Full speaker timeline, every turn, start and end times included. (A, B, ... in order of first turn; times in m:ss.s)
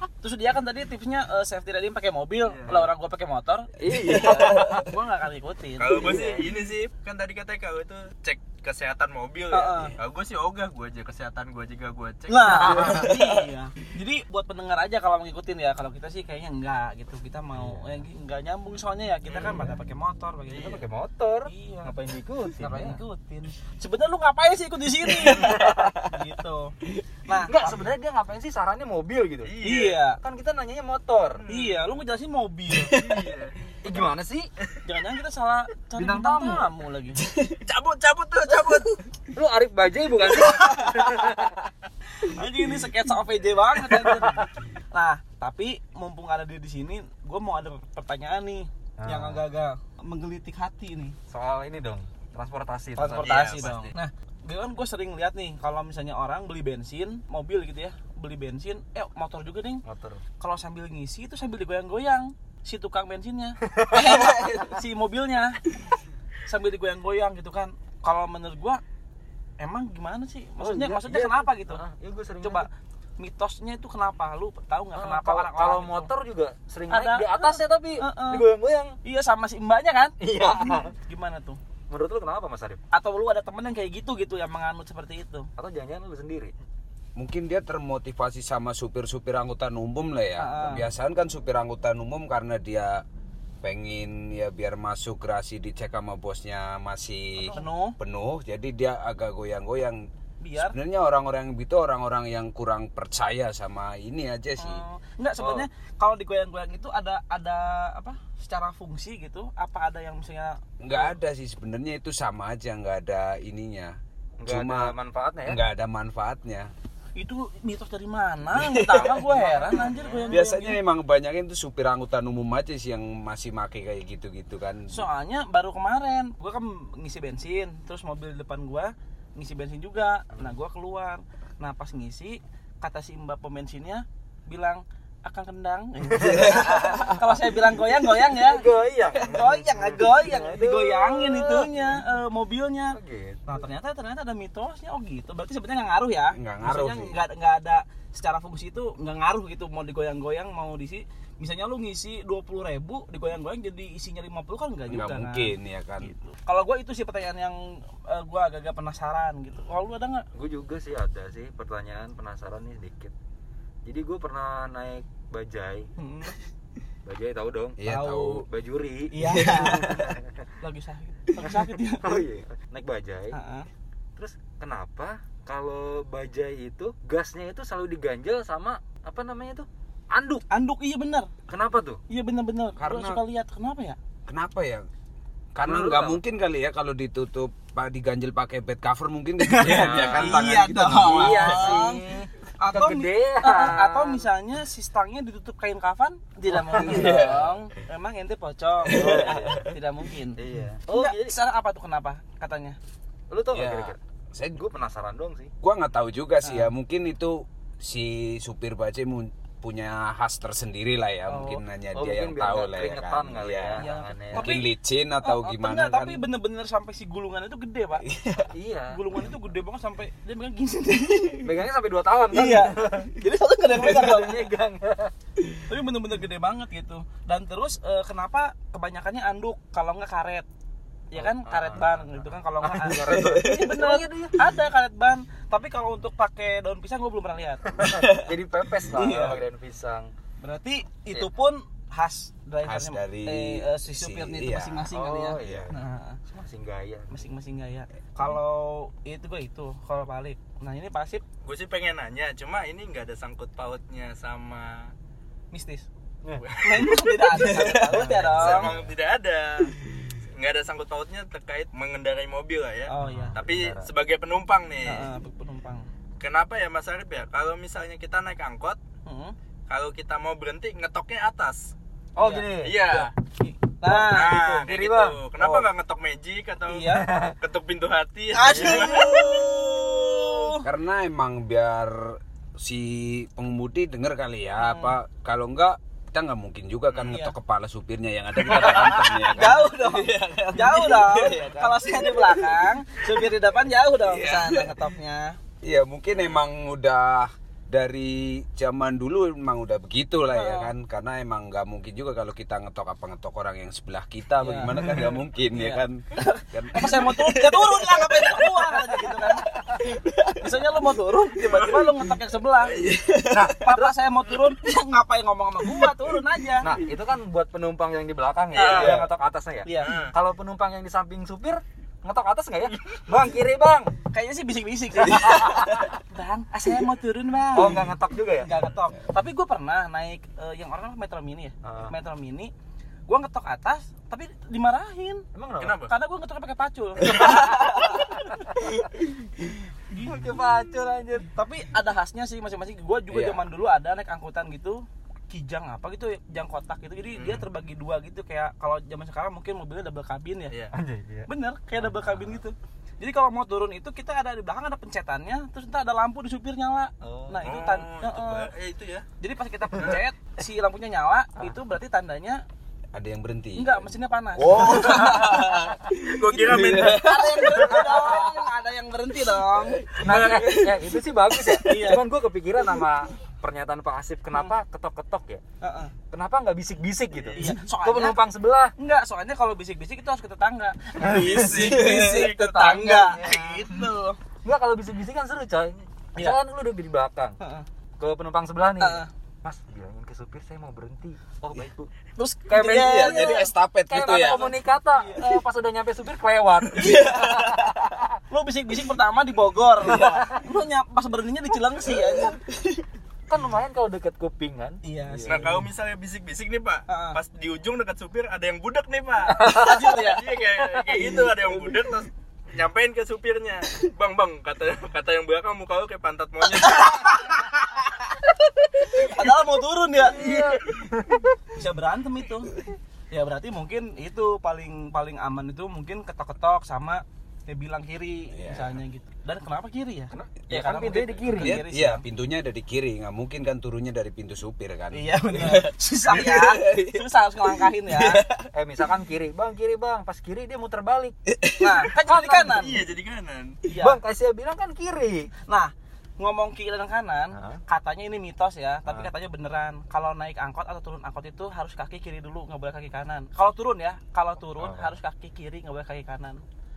0:00.2-0:06.4 A
0:02.5-0:02.8 B
0:03.8-0:04.9 C
0:04.2-0:04.8 D
0:05.8-0:13.0 B
0:05.9-0:06.4 C
0:09.5-0:09.9 A
0:12.3-0:20.8 A
0:12.5-0:13.1 C
0:12.9-0:13.4 D
0:17.5-0:18.0 C
0:19.3-0:19.6 B
0:19.4-0:19.8 C
0:20.5-0:23.0 C
0:21.4-0:22.0 A
0:22.6-0:27.8 A
0:25.2-0:26.0 C
0:27.4-0:29.5 C
0:29.4-0:30.0 B
0:29.6-0:30.2 A
0:30.2-0:31.4 C
0:31.4-0:31.9 B
0:31.5-0:33.0 A
0:32.9-0:34.0 B
0:33.8-0:34.5 C
0:34.8-0:37.2 A
0:36.0-0:36.7 C
0:37.6-0:38.9 B
0:39.3-0:41.5 C
0:40.4-0:41.3 A
0:42.2-0:51.2 A
0:43.8-0:44.5 C
0:49.0-0:49.4 C
0:51.3-0:53.9 C
0:53.0-0:59.8 A
0:53.2-0:53.9 B
0:59.8-1:00.2 C
1:00.4-1:05.6 A
1:03.7-1:04.6 C
1:06.5-1:08.8 A
1:09.6-1:11.8 A
1:10.6-1:12.7 C
1:12.4-1:16.1 A
1:14.9-1:19.0 C
1:16.9-1:18.4 A
1:19.0-1:21.6 A
1:20.2-1:20.9 C
1:21.9-1:22.8 C
1:22.9-1:25.5 A
1:25.6-1:26.5 C
1:27.2-1:33.0 D
1:30.4-1:30.8 A
1:33.6-1:44.8 D
1:37.4-1:38.0 A
1:40.4-1:40.7 A
1:44.6-1:51.1 A
1:50.8-1:54.9 D
1:54.4-1:55.6 C
1:55.4-1:56.7 D
1:57.2-2:00.8 A
1:58.6-1:59.1 D
1:59.1-2:00.4 C
2:00.3-2:04.9 D
2:04.9-2:40.2 A
2:16.1-2:17.2 C
2:16.3-2:17.1 D
2:18.2-2:22.0 C
2:22.9-2:23.5 C
2:26.3-2:27.2 D
2:34.9-2:36.1 D
2:40.3-2:43.1 C
2:43.8-2:45.9 C
2:46.0-2:46.4 A
2:47.0-2:47.8 C
2:47.8-2:48.5 D
2:47.8-2:48.4 A
2:48.4-2:50.4 C
2:49.1-2:49.8 A
2:49.3-2:50.1 D
2:50.6-2:52.2 A
2:51.4-2:53.4 C
2:53.3-2:53.7 A
2:54.2-3:00.4 C
3:00.5-3:01.3 A
3:01.5-3:02.0 C
3:02.1-3:04.0 A
3:02.8-3:03.2 D
3:04.2-3:04.9 D
3:05.5-3:11.8 D
3:05.6-3:06.2 C
3:09.5-3:12.0 A
3:09.6-3:14.3 C
3:09.9-3:10.5 B
3:12.6-3:22.8 A
3:16.6-3:17.4 C
3:16.7-3:17.5 D
3:18.9-3:19.7 C
3:19.0-3:19.4 D
3:20.4-3:21.4 C
3:23.3-3:24.0 C
3:23.5-3:24.7 D
3:24.6-3:25.5 C
3:25.6-3:36.2 D
3:31.3-3:34.6 C
3:33.8-3:34.7 A
3:35.2-3:38.0 A
3:38.0-3:38.5 D
3:38.5-3:39.0 C
3:38.9-3:41.5 A
3:41.4-3:43.1 C
3:42.3-3:44.5 A
3:43.7-3:45.1 C
3:45.6-3:50.4 A
3:51.1-3:57.9 A
3:51.1-3:54.4 C
3:57.8-4:00.1 C
3:58.9-3:59.4 A
4:00.4-4:06.2 A
4:02.6-4:04.9 D
4:04.9-4:05.7 C
4:05.4-4:05.7 D
4:06.2-4:07.3 C
4:07.1-4:11.2 A
4:11.4-4:14.9 B
4:15.5-4:15.8 A
4:16.4-4:19.7 B
4:16.6-4:18.7 A
4:17.5-4:18.8 C
4:20.4-4:25.1 B
4:22.9-4:23.4 A
4:23.0-4:23.9 C
4:24.8-4:25.8 A
4:26.2-4:28.8 B
4:29.0-4:29.3 A
4:29.7-4:31.7 B
4:32.2-4:33.1 C
4:32.2-4:34.6 A
4:32.6-4:33.1 B
4:33.9-4:35.2 C
4:34.0-4:40.5 B
4:35.4-4:35.7 D
4:36.7-4:37.1 A
4:36.9-4:37.3 C
4:38.3-4:40.6 A
4:38.5-4:39.1 C
4:40.6-4:49.7 D
4:44.6-4:45.0 A
4:46.9-4:47.2 B
4:47.1-4:47.3 A
4:48.5-4:52.3 B
4:48.9-4:55.4 A
4:54.0-4:54.8 D
4:55.6-5:08.5 D
5:00.3-5:00.7 A
5:04.4-5:09.5 A
5:09.9-5:10.4 D
5:10.4-5:12.8 A
5:11.4-5:11.9 B
5:12.7-5:13.7 D
5:13.6-5:16.7 A
5:16.6-5:23.9 C
5:18.5-5:19.1 B
5:18.5-5:19.1 A
5:19.6-5:20.0 A
5:19.8-5:20.1 B
5:24.1-5:32.5 A
5:25.1-5:25.7 C
5:27.5-5:28.5 C
5:31.6-5:31.9 C
5:33.1-5:35.2 A
5:35.3-5:35.8 C
5:35.6-5:35.9 B
5:35.9-5:38.6 A
5:37.0-5:38.3 C
5:39.9-5:40.5 A
5:40.0-5:41.3 C
5:41.2-5:50.5 A
5:43.1-5:43.4 D
5:47.2-5:47.4 B
5:50.7-5:52.4 C
5:51.3-5:58.5 A
5:57.0-5:57.5 C
5:57.4-5:59.0 B
5:59.2-6:02.4 A
6:02.9-6:05.5 D
6:03.6-6:05.6 A
6:04.5-6:08.2 B
6:06.2-6:10.3 A
6:06.5-6:07.0 D
6:07.8-6:08.1 C
6:10.0-6:15.4 C
6:10.1-6:10.4 D
6:11.3-6:12.1 A
6:15.6-6:15.9 A
6:16.1-6:18.7 C
6:17.1-6:17.4 B
6:17.4-6:18.2 A
6:18.8-6:24.2 A
6:21.0-6:23.1 B
6:21.1-6:22.1 C
6:22.8-6:23.8 C
6:24.4-6:27.4 C
6:27.4-6:27.6 A
6:28.0-6:31.9 C
6:28.8-6:29.1 A
6:32.2-6:33.5 A
6:32.5-6:38.1 C
6:32.6-6:34.4 D
6:34.0-6:35.4 A
6:36.7-6:37.6 A
6:38.3-6:42.4 A
6:39.8-6:40.2 C
6:43.3-6:45.6 C
6:44.8-6:45.6 A
6:45.3-6:57.3 B
6:46.9-6:47.2 A
6:49.3-6:50.0 C
6:49.4-6:50.4 A
6:50.8-6:51.8 C
6:51.0-6:51.3 A
6:56.5-6:58.2 A
6:58.8-7:00.5 A
7:00.0-7:01.4 C
7:01.5-7:02.5 A
7:03.1-7:12.0 A
7:08.3-7:08.8 D
7:10.1-7:11.6 C
7:11.4-7:17.0 D
7:14.9-7:18.2 A
7:18.5-7:21.2 C
7:21.4-7:21.7 D
7:21.6-7:22.8 A
7:21.9-7:22.8 C
7:22.5-7:23.6 B
7:23.7-7:24.0 A
7:23.7-7:25.3 C
7:25.5-7:36.4 A
7:27.3-7:27.6 C
7:34.6-7:34.9 C